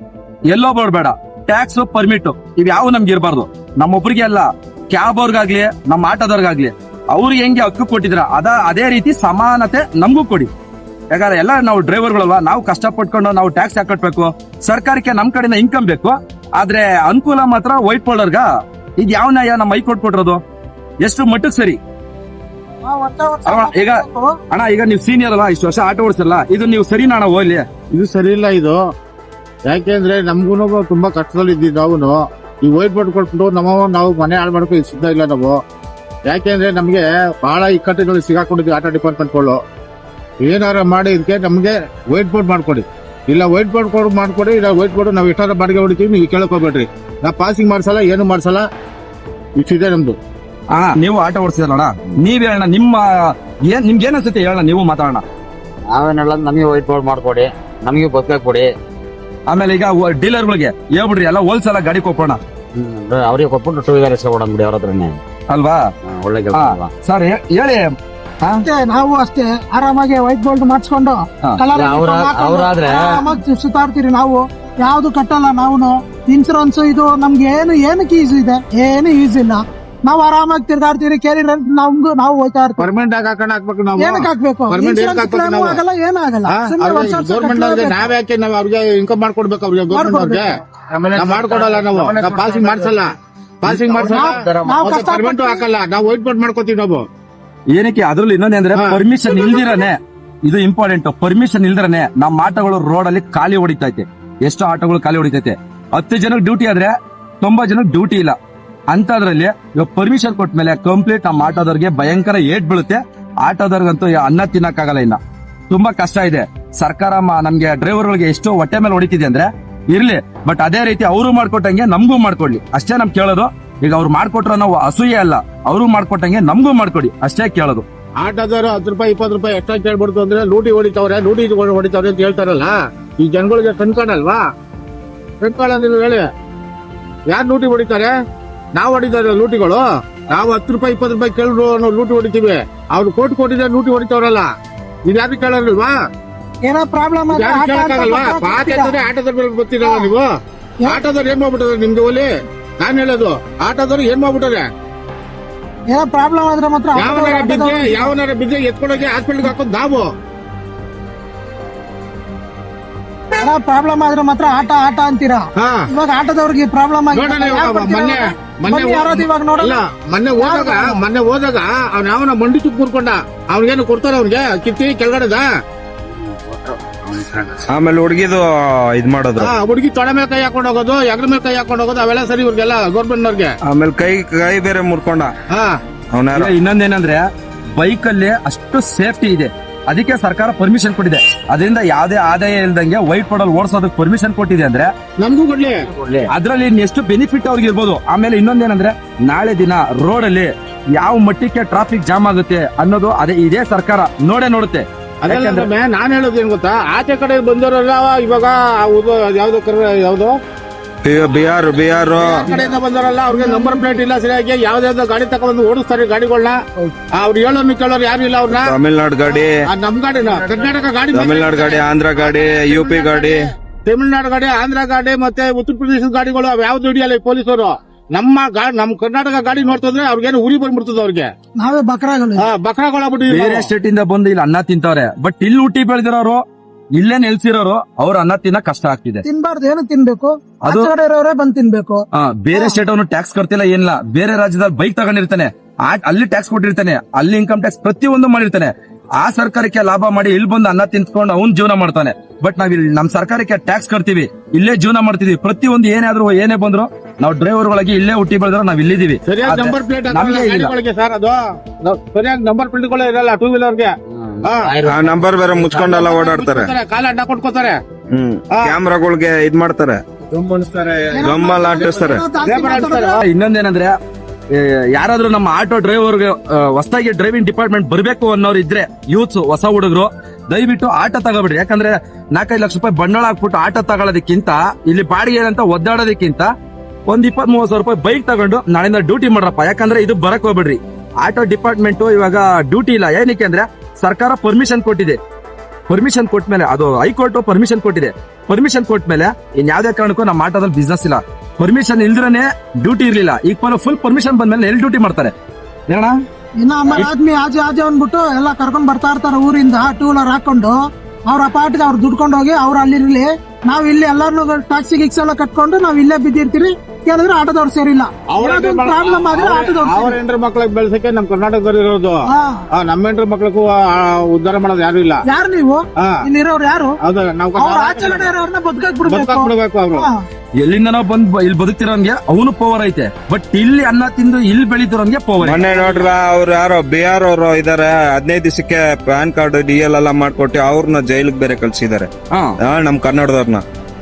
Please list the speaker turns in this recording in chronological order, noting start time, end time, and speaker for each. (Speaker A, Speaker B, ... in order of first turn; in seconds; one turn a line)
Speaker A: 0.5-10.5
Speaker A: 11.1-18.5
Speaker A: 19.0-20.4
Speaker A: 21.0-21.8
Speaker B: 22.8-24.3
Speaker A: 23.4-27.7
Speaker C: 27.9-28.8
Speaker C: 29.7-35.6
Speaker C: 36.2-39.6
Speaker C: 40.4-48.7
Speaker C: 49.6-50.2
Speaker A: 50.7-55.2
Speaker D: 55.9-58.7
Speaker A: 59.5-62.4
Speaker D: 62.7-65.2
Speaker A: 65.5-65.9
Speaker D: 66.1-66.9
Speaker A: 66.5-68.6
Speaker B: 68.6-82.9
Speaker D: 71.7-73.4
Speaker C: 82.8-85.8
Speaker B: 84.0-88.1
Speaker C: 86.5-90.4
Speaker B: 89.9-90.5
Speaker D: 91.0-92.9
Speaker C: 91.1-93.1
Speaker C: 93.6-97.0
Speaker D: 93.7-94.8
Speaker B: 94.1-95.7
Speaker A: 97.7-108.4
Speaker C: 98.7-99.0
Speaker A: 108.9-127.8
Speaker C: 128.2-134.4
Speaker C: 135.4-136.3
Speaker C: 137.3-138.1
Speaker C: 138.7-144.5
Speaker C: 145.1-145.9
Speaker B: 146.7-149.0
Speaker C: 147.3-150.3
Speaker B: 149.8-150.1
Speaker C: 150.9-154.7
Speaker B: 155.9-158.1
Speaker C: 156.9-160.1
Speaker B: 163.4-169.8
Speaker C: 165.6-165.9
Speaker C: 167.1-175.5
Speaker B: 170.3-171.0
Speaker D: 176.1-177.6
Speaker E: 177.7-179.5
Speaker C: 179.4-183.5
Speaker E: 183.6-185.3
Speaker C: 185.5-185.8
Speaker E: 186.1-186.5
Speaker A: 186.3-194.9
Speaker C: 195.2-195.8
Speaker A: 196.3-205.7
Speaker C: 205.2-210.4
Speaker E: 211.0-212.5
Speaker C: 212.2-216.6
Speaker B: 213.3-213.9
Speaker C: 217.1-218.7
Speaker E: 218.5-219.6
Speaker C: 219.6-231.3
Speaker E: 221.1-223.4
Speaker B: 231.6-232.5
Speaker C: 232.4-233.7
Speaker A: 233.3-236.4
Speaker A: 236.9-239.2
Speaker B: 239.2-242.8
Speaker A: 240.6-240.9
Speaker A: 242.2-260.7
Speaker C: 259.3-263.9
Speaker D: 264.1-265.3
Speaker C: 264.4-264.8
Speaker E: 264.8-266.7
Speaker C: 265.6-267.8
Speaker E: 268.1-270.0
Speaker D: 270.4-270.8
Speaker B: 271.1-273.2
Speaker E: 271.2-272.2
Speaker C: 272.4-273.2
Speaker A: 273.2-273.9
Speaker A: 274.5-286.5
Speaker A: 287.1-295.2
Speaker A: 295.9-305.3
Speaker A: 305.9-306.2
Speaker B: 306.6-310.8
Speaker B: 311.3-320.2
Speaker C: 318.3-325.2
Speaker B: 322.2-322.6
Speaker B: 325.2-327.0
Speaker C: 327.0-328.3
Speaker B: 327.6-330.2
Speaker C: 329.0-330.1
Speaker A: 330.6-335.8
Speaker E: 335.4-342.1
Speaker E: 342.6-343.6